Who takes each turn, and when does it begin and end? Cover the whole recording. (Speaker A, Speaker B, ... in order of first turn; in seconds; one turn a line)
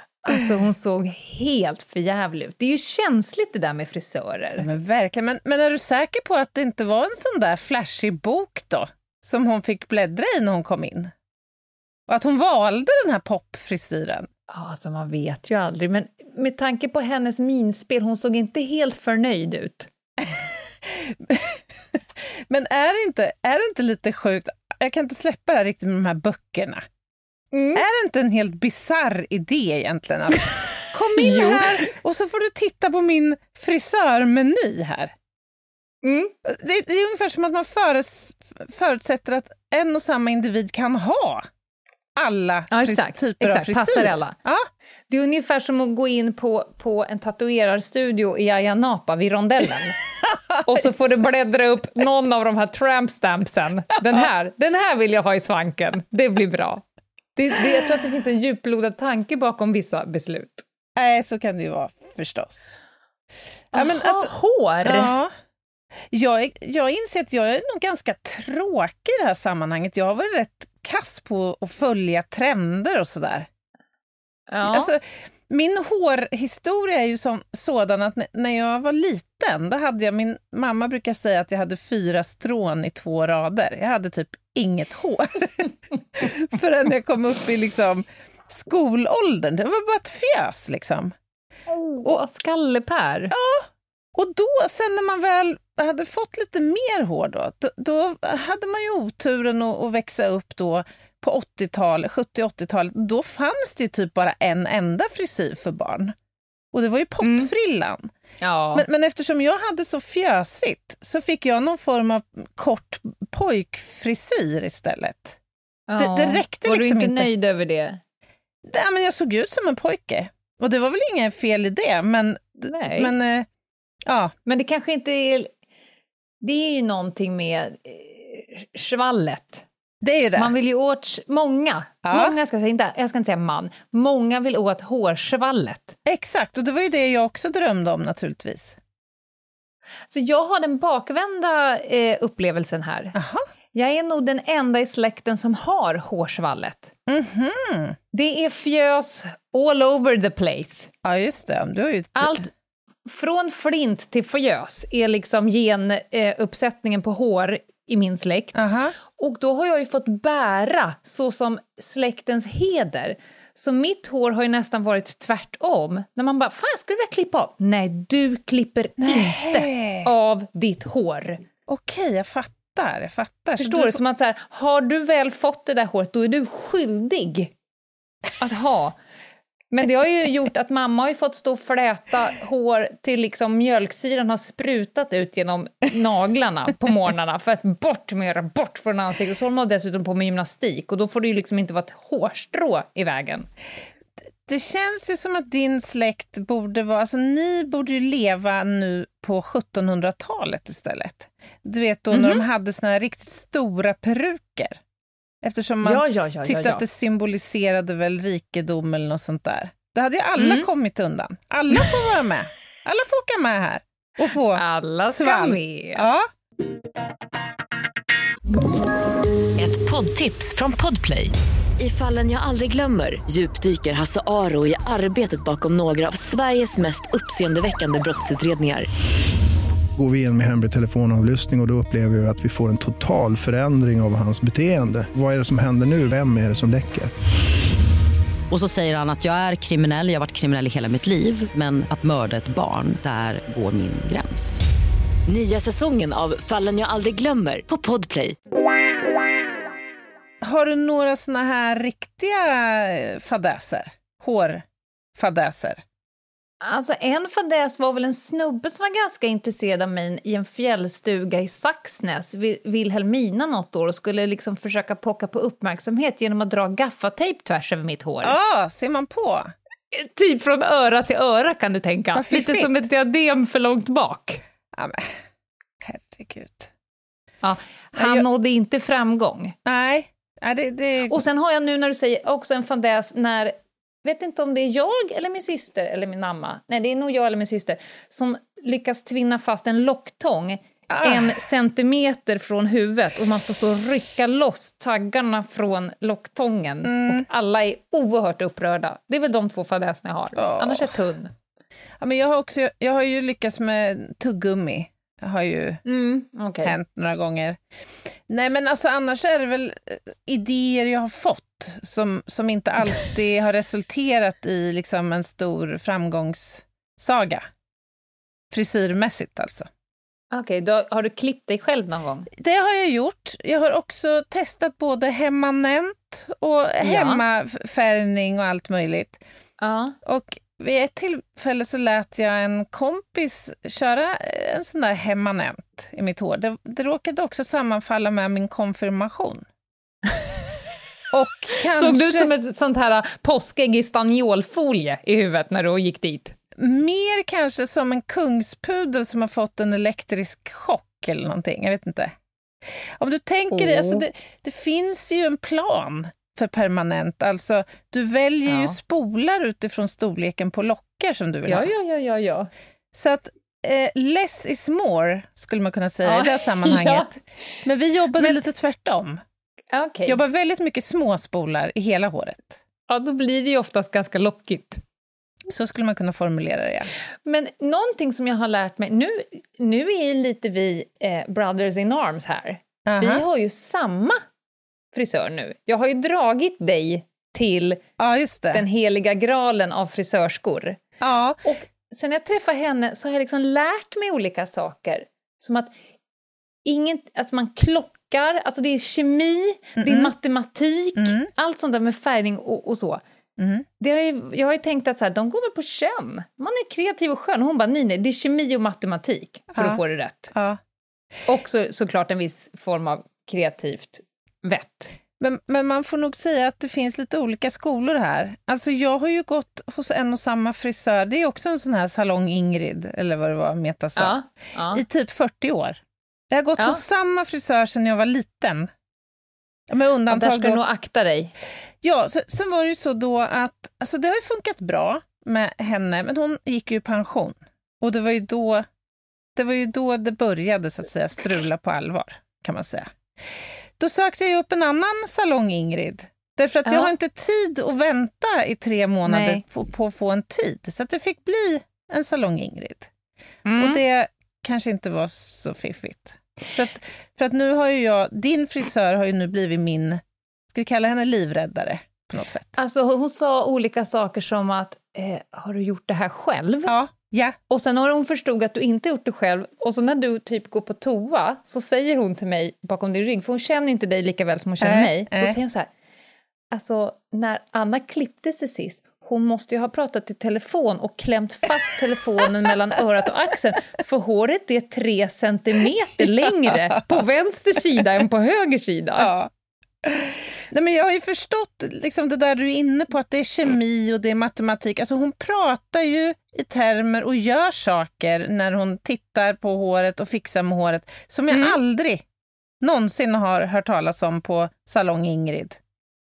Speaker A: 0.2-4.7
Speaker B: 4.6-11.1
Speaker B: 12.1-14.3
Speaker A: 14.5-19.9
Speaker B: 20.2-26.8
Speaker A: 27.5-27.8
Speaker B: 27.8-35.1
Speaker A: 31.1-31.9
Speaker A: 36.0-36.3
Speaker B: 36.4-41.5
Speaker B: 42.2-44.7
Speaker A: 42.7-44.4
Speaker A: 45.1-50.0
Speaker B: 50.3-50.9
Speaker A: 50.6-56.8
Speaker A: 57.4-60.6
Speaker B: 61.0-62.8
Speaker B: 63.7-64.3
Speaker A: 63.7-65.1
Speaker B: 64.8-65.3
Speaker B: 66.1-73.5
Speaker A: 74.5-74.9
Speaker B: 74.6-91.1
Speaker A: 91.7-93.3
Speaker B: 93.3-106.1
Speaker B: 106.7-108.1
Speaker A: 107.2-107.5
Speaker A: 108.4-108.8
Speaker B: 108.7-115.4
Speaker A: 115.9-118.0
Speaker B: 116.0-117.3
Speaker B: 118.7-123.5
Speaker A: 122.6-123.1
Speaker B: 124.0-124.3
Speaker A: 124.5-125.5
Speaker A: 126.4-129.6
Speaker B: 130.0-130.5
Speaker A: 130.3-135.9
Speaker B: 132.0-132.3
Speaker B: 136.1-138.8
Speaker A: 140.1-143.1
Speaker B: 143.1-143.4
Speaker A: 143.7-146.9
Speaker B: 147.1-148.0
Speaker A: 148.1-150.9
Speaker B: 151.0-152.5
Speaker A: 152.2-152.5
Speaker A: 153.1-171.4
Speaker B: 158.5-158.9
Speaker B: 169.0-170.1
Speaker B: 171.7-174.0
Speaker A: 173.6-177.5
Speaker A: 178.4-179.0
Speaker A: 179.7-193.5
Speaker B: 194.5-204.8
Speaker A: 202.1-202.4
Speaker B: 205.4-216.3
Speaker A: 205.8-206.8
Speaker A: 210.4-210.7
Speaker A: 214.5-216.0
Speaker C: 219.6-228.9
Speaker D: 230.0-237.1
Speaker E: 238.5-244.6
Speaker C: 245.3-248.3
Speaker B: 250.4-254.6
Speaker B: 255.2-255.8
Speaker A: 256.6-268.4
Speaker B: 268.2-269.5
Speaker A: 269.9-274.4
Speaker B: 272.1-272.7
Speaker B: 274.7-275.1
Speaker B: 275.8-276.7
Speaker A: 277.4-279.5
Speaker B: 278.0-278.2
Speaker B: 279.6-281.2
Speaker A: 281.1-301.3
Speaker B: 290.9-291.4
Speaker B: 296.8-297.2
Speaker B: 300.4-300.9
Speaker B: 302.0-305.8
Speaker A: 305.9-306.8
Speaker B: 306.6-307.6
Speaker B: 308.3-317.4
Speaker B: 318.5-319.7
Speaker A: 320.3-322.3
Speaker B: 322.4-329.2
Speaker A: 326.8-327.2
Speaker A: 329.6-329.9
Speaker B: 330.0-339.4
Speaker B: 341.1-342.3
Speaker A: 341.7-346.3
Speaker B: 346.6-352.1
Speaker B: 353.0-361.7
Speaker A: 353.5-354.1
Speaker A: 358.5-358.7
Speaker A: 361.5-362.5
Speaker B: 362.9-369.2
Speaker A: 366.0-367.1
Speaker A: 369.7-370.2
Speaker B: 370.1-372.6
Speaker A: 372.9-374.8
Speaker B: 375.5-376.9
Speaker A: 377.2-384.2
Speaker B: 382.9-383.2
Speaker A: 384.9-387.8
Speaker B: 388.0-388.6
Speaker A: 388.5-390.8
Speaker B: 391.0-391.4
Speaker A: 391.4-395.7
Speaker A: 396.6-403.0
Speaker B: 399.8-400.1
Speaker B: 400.9-401.3
Speaker B: 403.4-403.6
Speaker A: 403.8-410.3
Speaker B: 409.5-409.8
Speaker B: 410.3-410.6
Speaker A: 411.3-414.9
Speaker B: 415.2-424.2
Speaker A: 424.0-424.8
Speaker B: 424.7-425.8
Speaker B: 426.3-428.7
Speaker B: 429.7-430.6
Speaker A: 430.1-431.3
Speaker B: 431.8-438.6
Speaker B: 439.4-442.9
Speaker B: 443.8-452.9
Speaker A: 446.6-446.9
Speaker A: 449.1-449.4
Speaker A: 453.4-453.8
Speaker B: 453.6-462.5
Speaker A: 462.6-466.7
Speaker B: 466.7-467.4
Speaker A: 467.5-475.7
Speaker B: 474.6-475.4
Speaker A: 476.5-489.1
Speaker B: 489.0-489.3
Speaker B: 489.8-502.0
Speaker A: 501.3-501.6
Speaker B: 502.6-505.6